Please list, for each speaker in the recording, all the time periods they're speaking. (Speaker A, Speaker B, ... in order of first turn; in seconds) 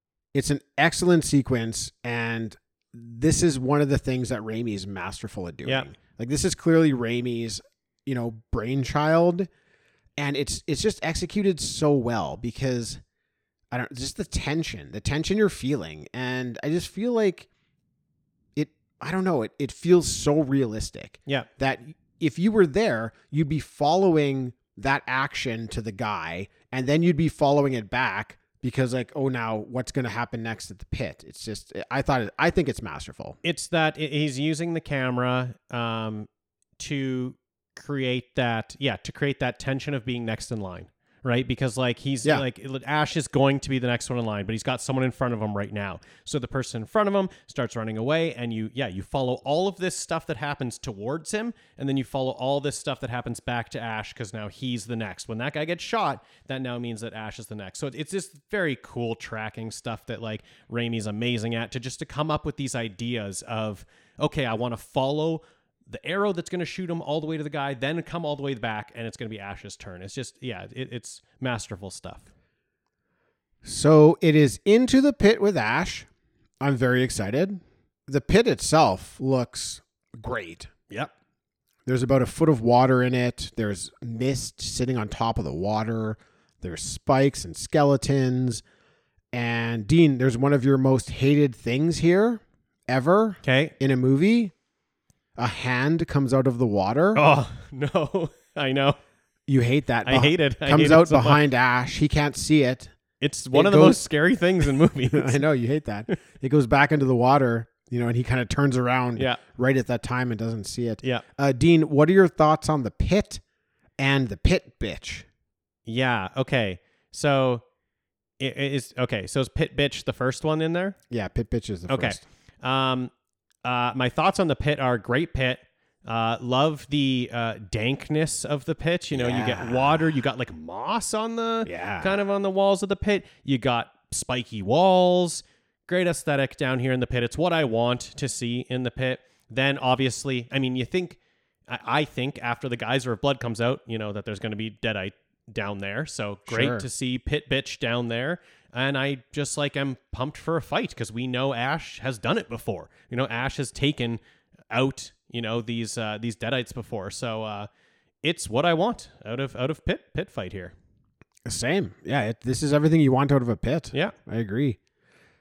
Speaker A: 0.3-9.5, 10.2-13.0, 13.7-17.5, 18.6-33.4, 73.6-76.1, 76.6-80.7, 81.8-88.6, 89.3-94.5, 95.4-97.2, 99.5-102.9, 103.5-104.0, 104.6-113.4, 114.0-115.2, 121.1-122.2, 129.1-130.2, 131.6-132.2, 146.5-146.9, 161.4-164.8
Speaker B: 33.4-36.3, 36.8-72.3, 93.4-93.7, 97.1-99.0, 100.0-101.4, 103.2-105.4, 115.9-117.6, 118.4-121.0, 121.9-123.1, 123.6-141.2, 141.7-154.2, 154.7-157.7, 158.2-160.7